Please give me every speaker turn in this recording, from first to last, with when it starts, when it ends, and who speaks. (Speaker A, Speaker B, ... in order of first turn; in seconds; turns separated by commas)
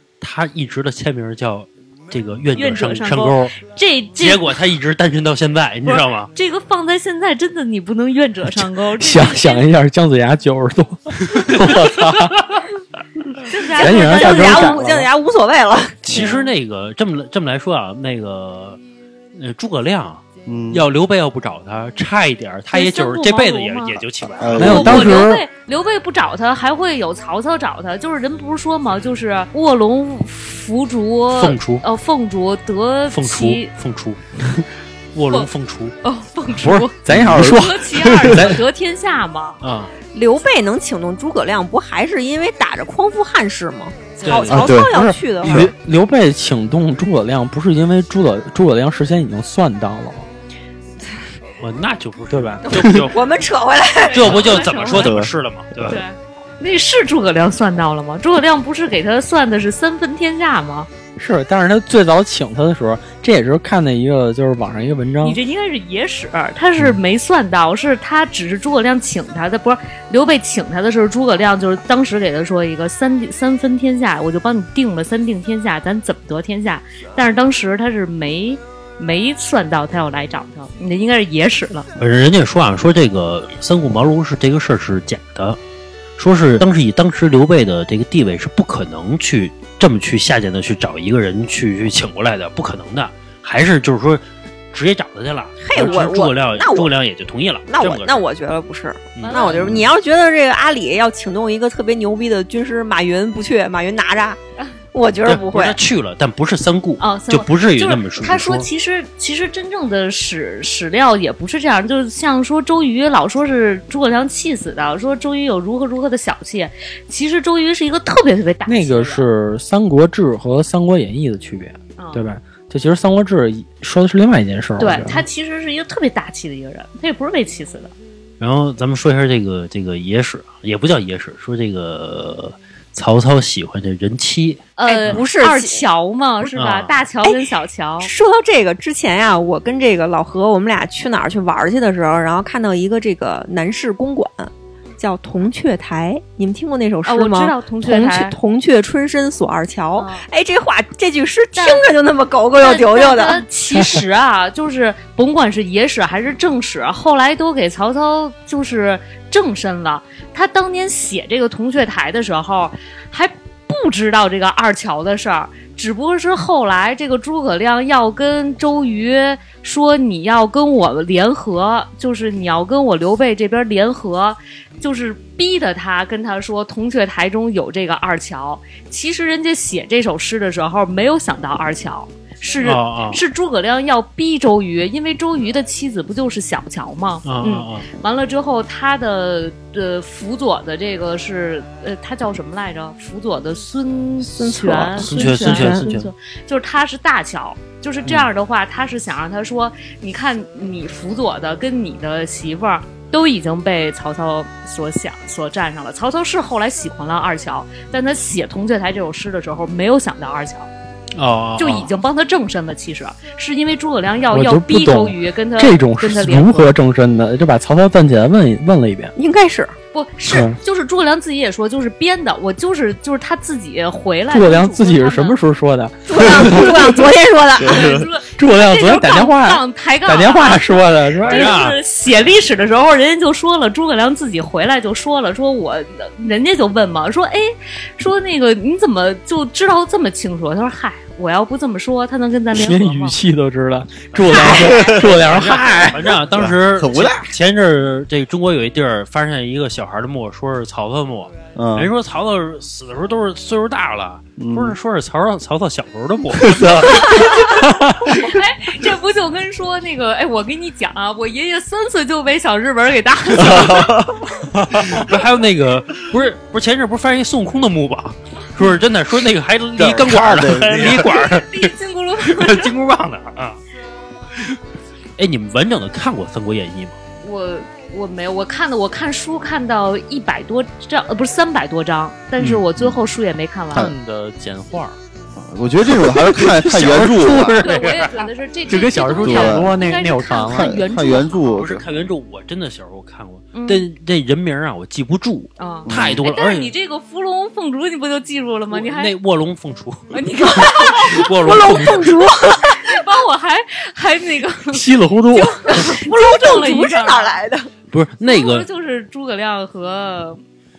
Speaker A: 0.2-3.5, Speaker B: 2.5-4.5, Speaker A: 4.2-6.3, Speaker B: 5.9-9.6, Speaker C: 9.0-12.4, Speaker A: 11.4-12.3, Speaker B: 13.5-14.8, Speaker C: 13.7-15.1, Speaker D: 13.8-16.0, Speaker A: 16.0-18.8, Speaker B: 16.1-16.5, Speaker A: 19.3-25.2, Speaker E: 20.4-20.8, Speaker B: 22.7-24.0, Speaker E: 24.4-25.2, Speaker C: 24.6-25.4, Speaker B: 24.6-33.7, Speaker A: 31.3-31.8, Speaker A: 33.1-34.3, Speaker A: 35.1-36.0, Speaker B: 36.0-39.6, Speaker C: 36.6-38.6, Speaker E: 37.1-37.5, Speaker A: 39.6-39.9, Speaker D: 40.1-45.7, Speaker B: 44.2-44.5, Speaker A: 44.2-44.9, Speaker E: 44.5-44.9, Speaker C: 44.7-50.3, Speaker A: 45.4-45.7, Speaker A: 51.6-53.5, Speaker C: 52.3-52.7, Speaker D: 52.7-54.8, Speaker B: 54.0-55.2, Speaker A: 54.1-56.0, Speaker E: 54.9-56.0, Speaker B: 55.8-60.9, Speaker C: 61.2-65.4, Speaker B: 65.2-81.9, Speaker A: 82.0-85.6, Speaker A: 86.2-98.2, Speaker D: 95.6-96.9, Speaker D: 97.7-104.4, Speaker A: 99.2-99.9, Speaker B: 99.2-99.7, Speaker D: 104.9-105.8, Speaker A: 105.2-108.7, Speaker B: 107.0-119.3, Speaker C: 118.7-125.3, Speaker B: 122.0-122.3, Speaker B: 124.8-127.9, Speaker A: 128.4-135.2, Speaker B: 134.8-138.1, Speaker D: 134.9-135.8, Speaker A: 136.6-136.9, Speaker D: 138.0-153.4, Speaker B: 147.1-148.4, Speaker B: 149.9-150.3, Speaker B: 151.6-151.9, Speaker B: 152.6-210.7, Speaker A: 182.6-183.2, Speaker A: 187.2-187.9, Speaker D: 194.2-195.9, Speaker A: 195.0-196.1, Speaker A: 211.1-211.9, Speaker B: 211.6-216.8, Speaker C: 214.3-219.1, Speaker D: 219.2-219.7, Speaker B: 219.9-225.4, Speaker C: 220.3-220.6, Speaker C: 224.3-227.0, Speaker D: 226.1-227.9, Speaker B: 227.6-243.2, Speaker E: 227.7-228.0, Speaker C: 228.3-231.6, Speaker A: 231.2-231.8, Speaker C: 242.5-246.2, Speaker A: 244.2-257.4, Speaker B: 244.3-244.9, Speaker E: 246.4-247.3, Speaker E: 251.6-251.9, Speaker E: 254.4-254.8, Speaker E: 256.4-257.6, Speaker B: 257.1-263.9, Speaker E: 263.4-264.2, Speaker A: 263.4-271.7, Speaker E: 269.8-271.3, Speaker B: 271.3-272.7, Speaker A: 272.2-273.6, Speaker A: 275.2-277.0, Speaker B: 277.2-283.9, Speaker E: 282.4-283.0, Speaker C: 283.7-285.0, Speaker E: 285.4-287.6, Speaker C: 285.8-290.7, Speaker B: 287.6-291.5, Speaker E: 289.2-289.8, Speaker E: 290.4-291.8, Speaker A: 291.5-296.7, Speaker B: 293.5-293.9, Speaker B: 295.6-299.1, Speaker E: 295.9-296.2, Speaker A: 298.7-302.3, Speaker B: 300.1-301.3, Speaker D: 300.6-303.0, Speaker B: 302.7-307.4, Speaker C: 304.7-305.8, Speaker D: 305.7-307.7, Speaker A: 307.9-308.7, Speaker B: 308.3-310.4